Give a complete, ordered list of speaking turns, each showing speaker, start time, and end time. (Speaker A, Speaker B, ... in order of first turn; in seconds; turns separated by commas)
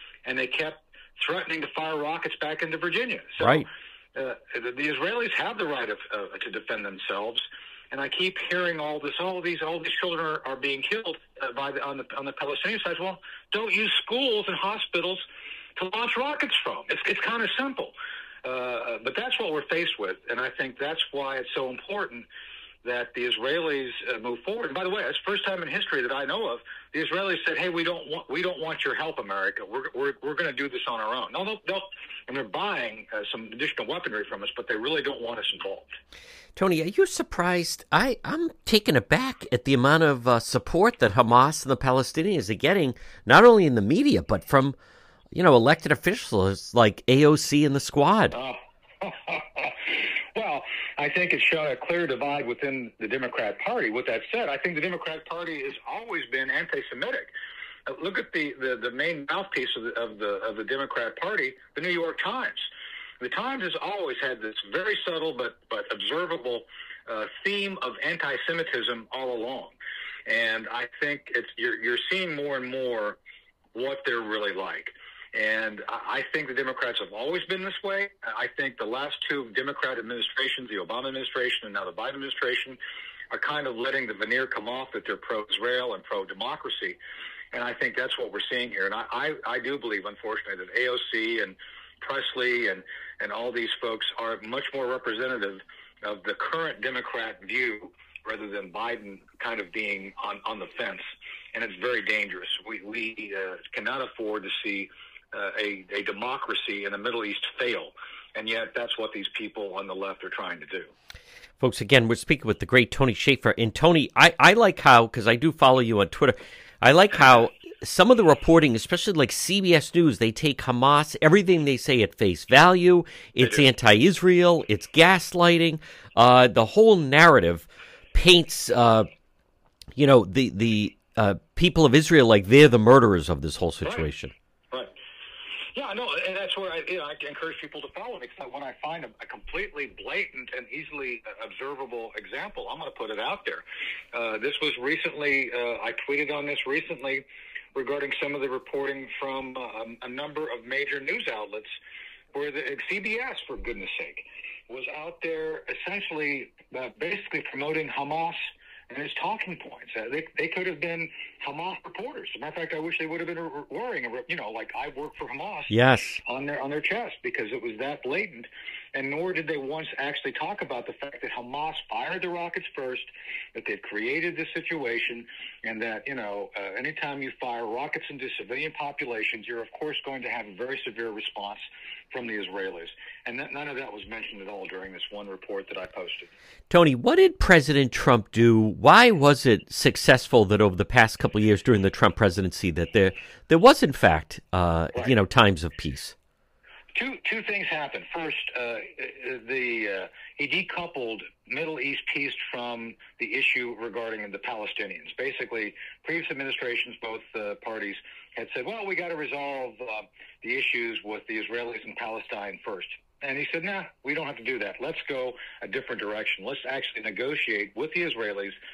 Speaker A: 0.2-15.2, Speaker B: 3.4-3.7, Speaker A: 15.8-22.3, Speaker A: 22.8-36.0, Speaker B: 36.6-44.8, Speaker B: 45.3-48.4, Speaker A: 48.3-57.3, Speaker A: 57.9-62.7, Speaker A: 63.2-73.2, Speaker A: 73.7-82.8, Speaker A: 83.3-87.0, Speaker A: 87.5-110.9, Speaker B: 111.6-129.1, Speaker A: 117.1-117.4, Speaker A: 123.4-123.7, Speaker B: 130.0-134.3, Speaker A: 134.7-135.0, Speaker A: 135.7-151.7, Speaker A: 152.3-186.3, Speaker B: 165.7-166.2, Speaker B: 186.7-196.2, Speaker A: 196.9-218.6